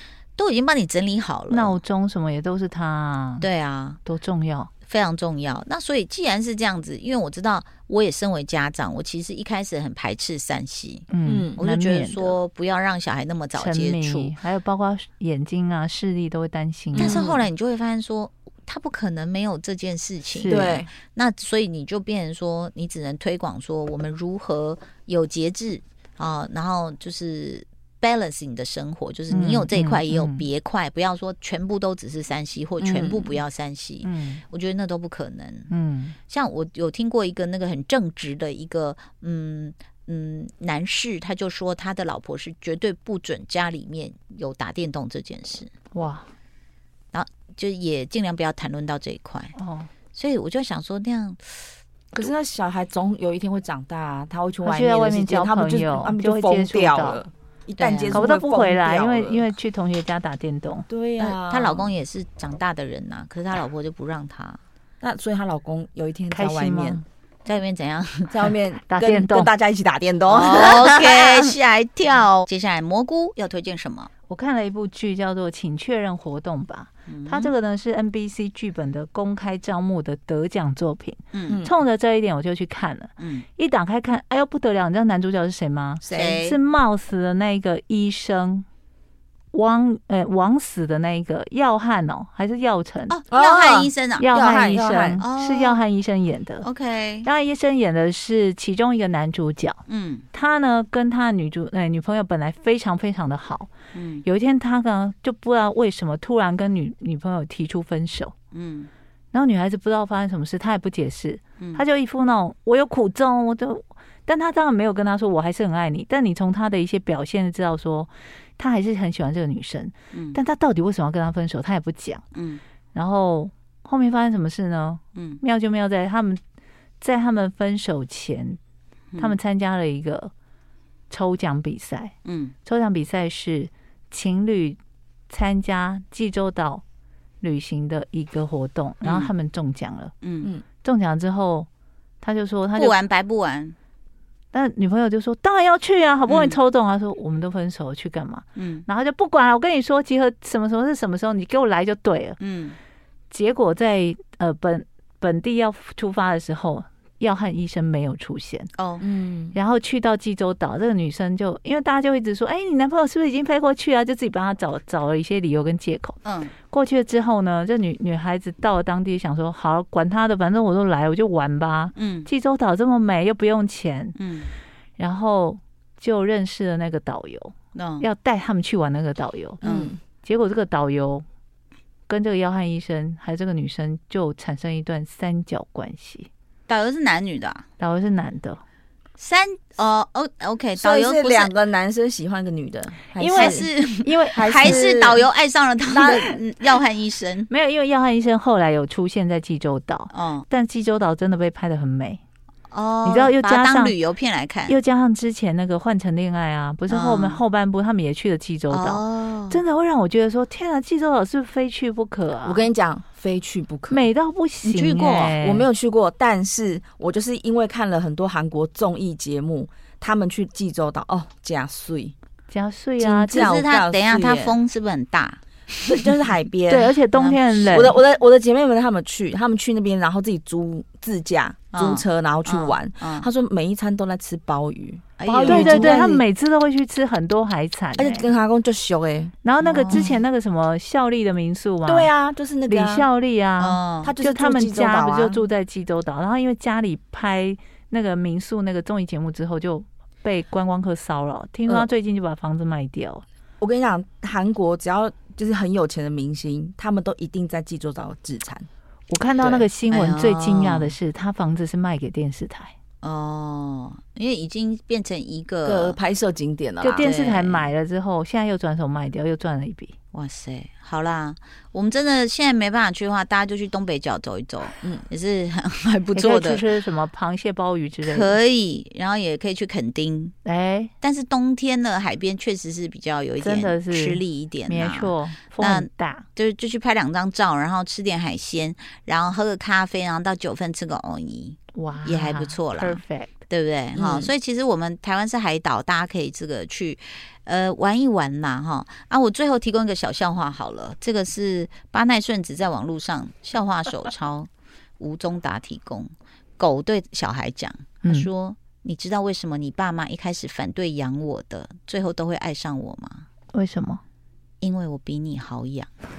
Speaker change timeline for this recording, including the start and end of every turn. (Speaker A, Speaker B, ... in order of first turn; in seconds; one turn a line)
Speaker A: 0.4-1.8
Speaker B: 1.5-3.5
Speaker A: 3.4-4.0
Speaker B: 4.0-4.7
Speaker A: 4.9-14.4
Speaker B: 11.1-12.4
Speaker C: 11.3-11.6
Speaker B: 13.6-17.2
Speaker C: 16.9-17.4
Speaker A: 17.0-35.7
Speaker B: 20.3-20.8
Speaker C: 20.5-20.9
Speaker B: 29.3-30.4
Speaker C: 32.8-33.4
Speaker B: 34.0-34.4
Speaker B: 35.7-36.2
Speaker A: 36.3-45.7
Speaker B: 45.9-46.3
Speaker A: 47.1-49.5
Speaker B: 49.6-49.9
Speaker A: 50.1-51.5
Speaker C: 52.1-59.5
Speaker B: 54.6-57.2
Speaker A: 57.8-58.3
Speaker B: 58.1-60.9
Speaker C: 60.9-61.9
Speaker A: 61.2-64.6
Speaker C: 65.0-67.0
Speaker B: 66.3-67.0
Speaker A: 67.5-68.4
Speaker C: 68.3-71.4
Speaker B: 68.9-69.5
Speaker A: 70.3-74.1
Speaker B: 74.3-88.7
Speaker A: 77.1-77.5
Speaker A: 81.3-81.6
Speaker C: 81.5-81.7
Speaker A: 83.2-83.5
Speaker A: 86.0-86.6
Speaker B: 89.5-93.2
Speaker A: 93.1-94.3
Speaker C: 93.3-95.2
Speaker B: 94.2-96.7
Speaker A: 95.2-95.8
Speaker A: 96.6-97.3
Speaker B: 97.2-99.8
Speaker A: 99.9-100.3
Speaker B: 100.3-103.7
Speaker A: 103.9-104.2
Speaker B: 104.2-108.3
Speaker A: 108.5-108.9
Speaker B: 109.3-122.2
Speaker A: 120.1-120.4
Speaker A: 122.3-122.6
Speaker B: 122.9-126.4
Speaker A: 125.2-125.4
Speaker B: 127.0-128.6
Speaker B: 129.2-130.3
Speaker B: 131.1-132.1
Speaker A: 132.2-132.5
Speaker B: 132.7-136.8
Speaker B: 137.4-140.1
Speaker A: 139.0-139.3
Speaker A: 140.2-140.5
Speaker B: 140.8-141.7
Speaker B: 142.2-142.9
Speaker A: 142.8-143.8
Speaker B: 144.5-152.4
Speaker A: 146.3-146.6
Speaker A: 148.6-148.9
Speaker A: 152.4-152.8
Speaker B: 153.3-158.7
Speaker A: 158.8-159.0
Speaker C: 159.0-159.6
Speaker B: 159.5-166.2
Speaker A: 166.2-166.5
Speaker B: 166.7-174.2
Speaker A: 171.9-172.3
Speaker A: 174.2-174.5
Speaker B: 175.0-179.6
Speaker A: 177.7-178.1
Speaker A: 179.6-179.9
Speaker C: 179.6-180.0
Speaker B: 180.2-181.2
Speaker B: 182.1-186.3
Speaker A: 186.7-187.7
Speaker B: 187.8-188.6
Speaker A: 189.2-191.6
Speaker C: 190.8-193.7
Speaker B: 193.2-194.8
Speaker A: 193.3-197.5
Speaker C: 194.2-195.2
Speaker C: 195.9-196.2
Speaker B: 197.5-202.2
Speaker A: 200.1-200.5
Speaker A: 202.7-204.8
Speaker B: 203.0-203.9
Speaker B: 204.7-212.6
Speaker A: 206.9-207.4
Speaker A: 208.7-209.6
Speaker C: 212.4-214.1
Speaker B: 213.9-215.7
Speaker A: 214.6-215.3
Speaker C: 215.3-222.1
Speaker B: 222.5-223.5
Speaker C: 223.0-224.6
Speaker A: 223.3-226.0
Speaker C: 225.9-226.9
Speaker B: 226.7-228.0
Speaker A: 227.1-227.8
Speaker C: 227.7-236.2
Speaker A: 231.7-233.3
Speaker A: 235.2-235.9
Speaker B: 235.4-238.3
Speaker C: 238.0-239.3
Speaker B: 239.4-242.1
Speaker A: 239.6-240.2
Speaker C: 241.8-243.1
Speaker B: 242.7-253.2
Speaker A: 243.6-244.1
Speaker C: 244.0-245.4
Speaker C: 253.6-258.7
Speaker B: 259.1-262.7
Speaker C: 259.4-259.7
Speaker A: 259.9-260.9
Speaker A: 263.0-266.0
Speaker C: 265.7-267.1
Speaker B: 266.8-269.9
Speaker A: 267.0-267.7
Speaker A: 270.1-276.6
Speaker B: 276.1-278.4
Speaker A: 278.0-280.3
Speaker B: 280.4-280.9
Speaker A: 281.0-304.5
Speaker B: 283.4-286.3
Speaker B: 291.8-293.3
Speaker C: 293.9-294.3
Speaker A: 305.0-313.3
Speaker B: 313.5-314.0
Speaker A: 314.6-315.9